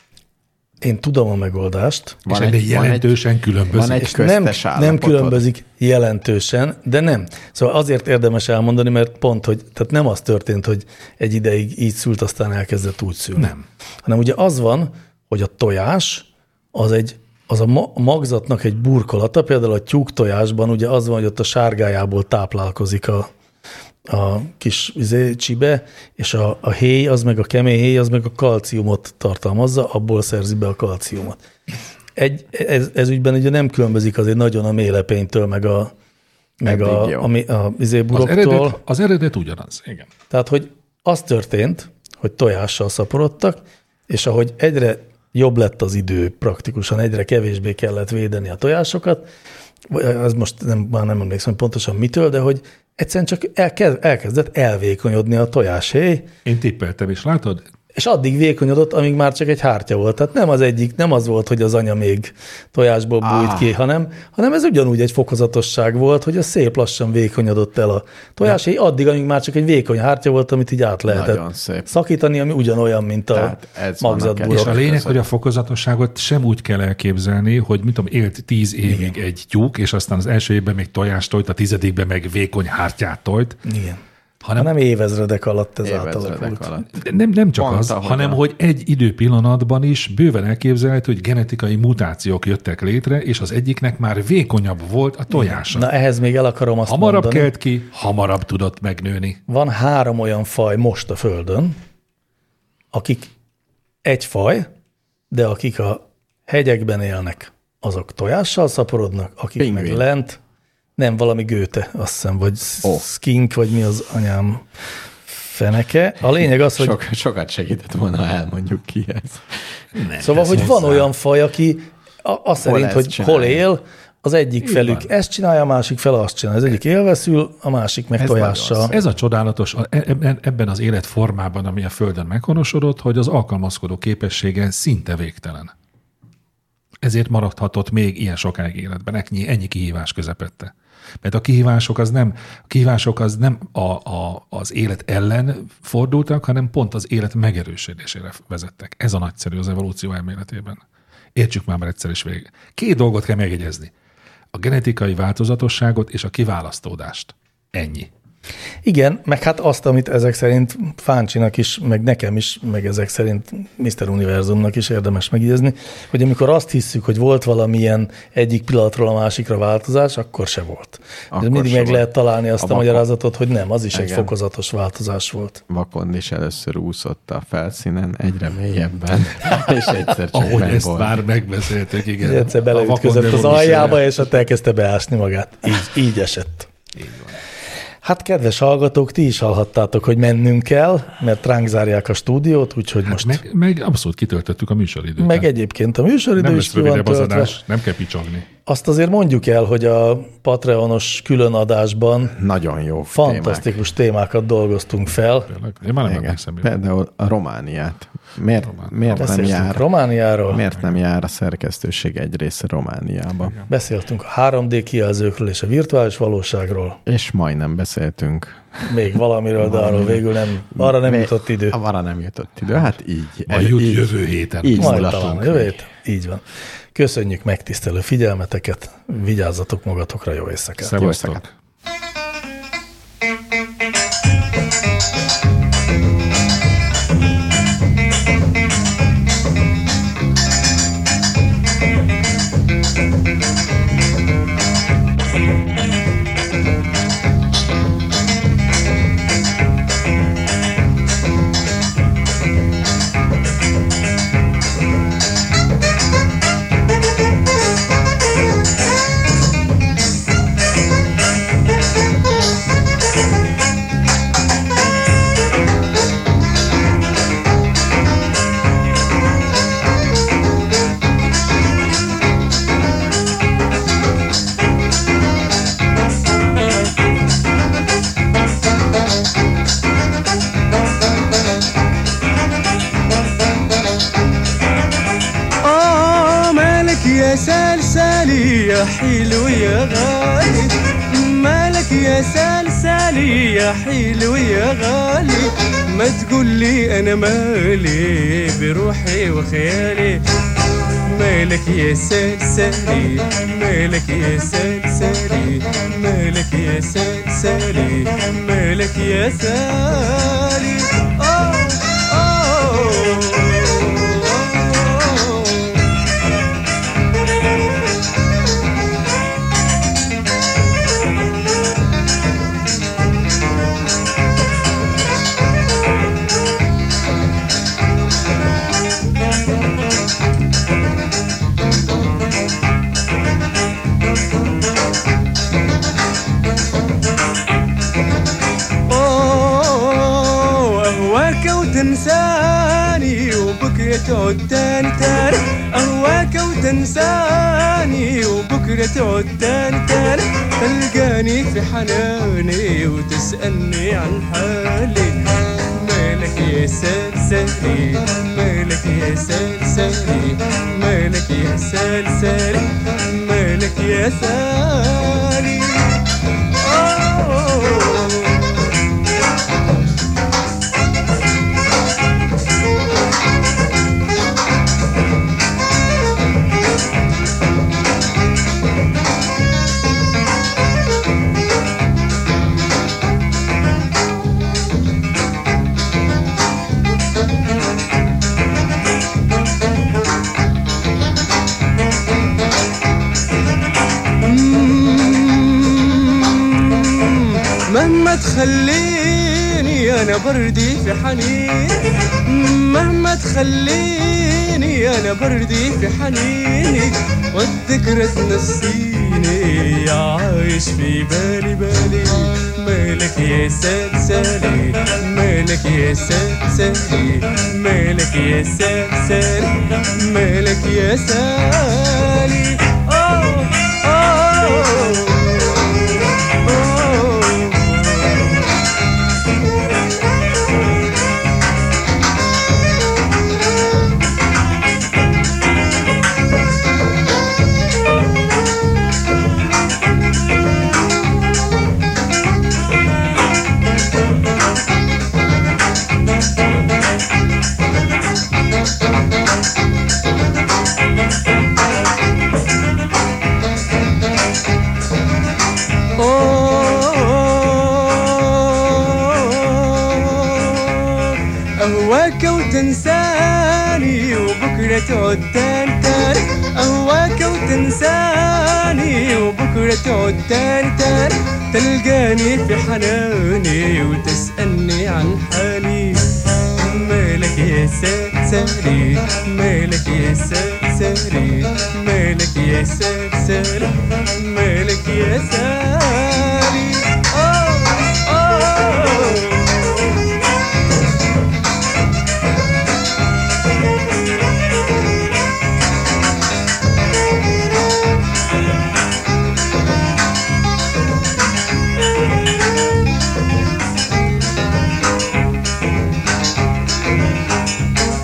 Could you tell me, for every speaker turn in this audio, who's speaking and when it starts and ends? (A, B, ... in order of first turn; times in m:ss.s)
0:00.8-0:02.2 A
0:02.2-0:03.1 B
0:02.3-0:04.1 C
0:03.7-0:05.4 B
0:04.0-0:23.3 A
0:13.4-0:13.6 C
0:24.1-0:31.4 A
0:32.2-0:35.9 A
0:36.6-0:38.8 A
0:36.6-0:37.3 B
0:38.1-0:40.1 C
0:40.3-0:49.3 A
0:49.9-0:56.3 A
0:56.4-0:57.6 C
0:57.9-1:14.8 A
1:03.2-1:03.8 B
1:11.1-1:11.9 B
1:13.3-1:15.3 B
1:14.5-1:23.6 C
1:18.8-1:19.2 A
1:23.6-1:24.0 A
1:24.4-1:24.7 C
1:24.6-1:26.7 A
1:25.8-1:27.0 B
1:26.9-1:35.9 C
1:27.6-1:28.4 B
1:35.3-1:37.5 A
1:36.9-1:39.4 C
1:39.5-1:41.8 A
1:42.9-1:43.3 A
1:44.0-1:44.7 A
1:45.3-1:50.4 A
1:49.6-1:50.0 B
1:51.0-1:54.6 A
1:55.3-1:57.0 A
1:56.8-1:59.7 B
1:59.9-2:01.1 C
2:00.2-2:08.9 A
2:02.6-2:03.6 B
2:04.6-2:05.1 C
2:08.2-2:09.0 B
2:08.9-2:15.7 C
2:17.0-2:30.8 C
2:31.4-2:33.9 C
2:34.5-2:38.1 C
2:38.8-2:55.6 A
2:51.3-2:53.0 B
2:53.9-2:54.3 B
2:55.7-3:01.2 B
3:00.3-3:04.2 C
3:02.2-3:06.7 A
3:07.0-3:07.4 C
3:08.0-3:13.4 A
3:13.0-3:15.5 C
3:15.2-3:17.6 A
3:16.4-3:18.4 C
3:18.7-3:22.3 A
3:22.3-3:23.7 B
3:23.1-3:25.5 A
3:25.5-3:26.7 C
3:26.0-3:29.8 B
3:28.8-3:29.5 C
3:29.2-3:30.6 A
3:30.5-3:33.6 B
3:33.7-3:37.0 A
3:37.0-3:38.9 B
3:38.8-3:41.8 A
3:39.6-3:44.1 B
3:43.5-3:45.2 C
3:44.6-3:45.7 B
3:44.8-3:46.4 A
3:46.9-3:51.0 A
3:50.8-3:51.5 C
3:51.0-3:51.4 B
4:45.6-5:00.2 D
5:01.1-5:15.9 D
5:38.9-5:55.2 D
5:55.7-6:06.0 D
6:06.5-6:08.7 D
6:34.2-7:08.5 D
7:36.0-8:10.0 D